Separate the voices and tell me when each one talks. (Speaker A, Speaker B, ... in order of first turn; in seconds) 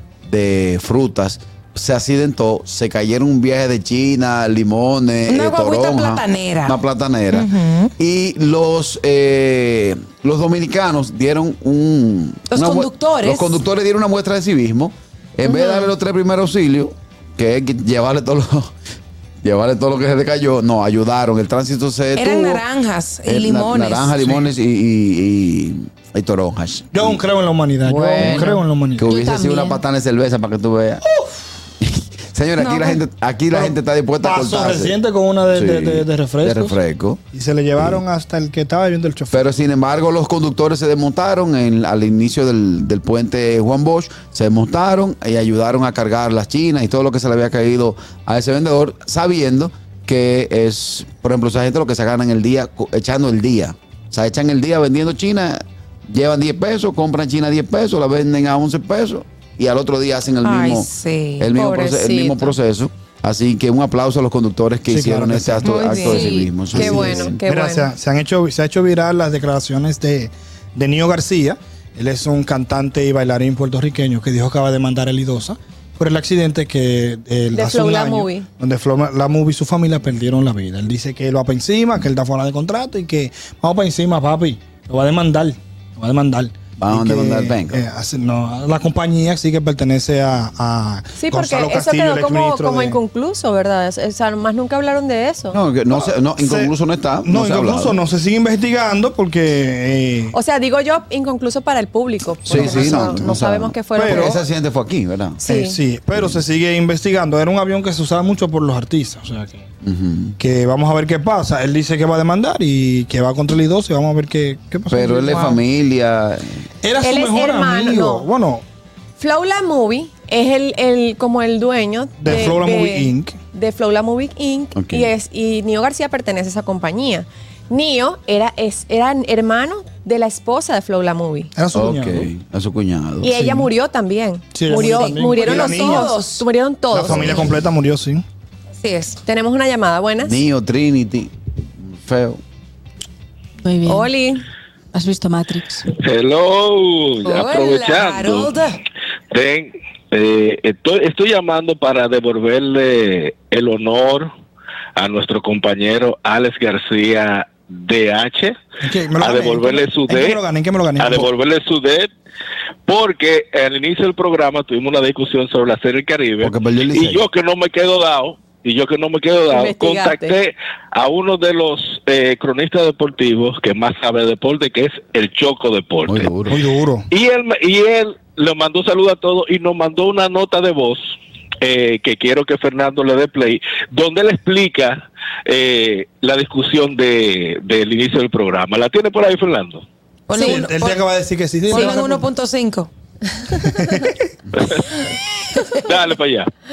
Speaker A: 0.3-18.7, 19.4-22.6, 23.2-27.2, 28.2-31.0, 31.8-35.0, 35.5-37.2, 37.8-38.0, 39.3-67.4, 86.8-87.8, 95.5-98.0, 102.5-105.4, 106.1-106.4, 109.8-110.3, 114.9-116.7, 124.7-125.1, 131.7-133.4, 137.1-137.6, 140.2-142.4, 166.4-167.3, 176.1-176.6
Speaker B: 5.3-7.9, 12.5-13.6, 15.4-15.9, 22.1-24.2, 32.6-33.0, 60.4-61.5, 115.3-115.6, 134.7-136.4, 138.8-139.2, 147.2-148.7, 190.3-191.0, 191.7-192.9
Speaker C: 24.2-24.5, 26.9-29.1, 33.5-36.8, 37.3-39.5, 64.9-65.9, 66.7-93.0, 95.9-100.3, 102.5-103.3, 103.9-104.4, 105.5-109.7, 110.4-115.5, 116.8-118.6, 122.2-123.4, 131.6-132.3, 133.3-133.7, 134.5-136.1, 136.9-138.2, 158.8-161.2, 176.5-177.1, 190.3-192.3, 193.5-194.2
Speaker D: 27.8-28.6, 61.5-62.6, 65.6-67.9, 77.5-78.5, 91.2-95.6, 100.3-104.3, 105.4-105.8, 117.0-118.3, 119.2-131.5, 133.2-137.4, 139.2-140.4, 143.8-144.4, 169.5-170.4
Speaker E: 29.0-29.8, 66.0-66.5, 143.6-144.1, 144.9-145.9
Speaker F: 146.0-148.5, 149.3-154.3, 155.0-158.6, 159.2-160.4, 161.0-162.1, 162.9-176.3, 177.1-181.1, 181.6-189.8, 194.5-195.0, 195.8-196.5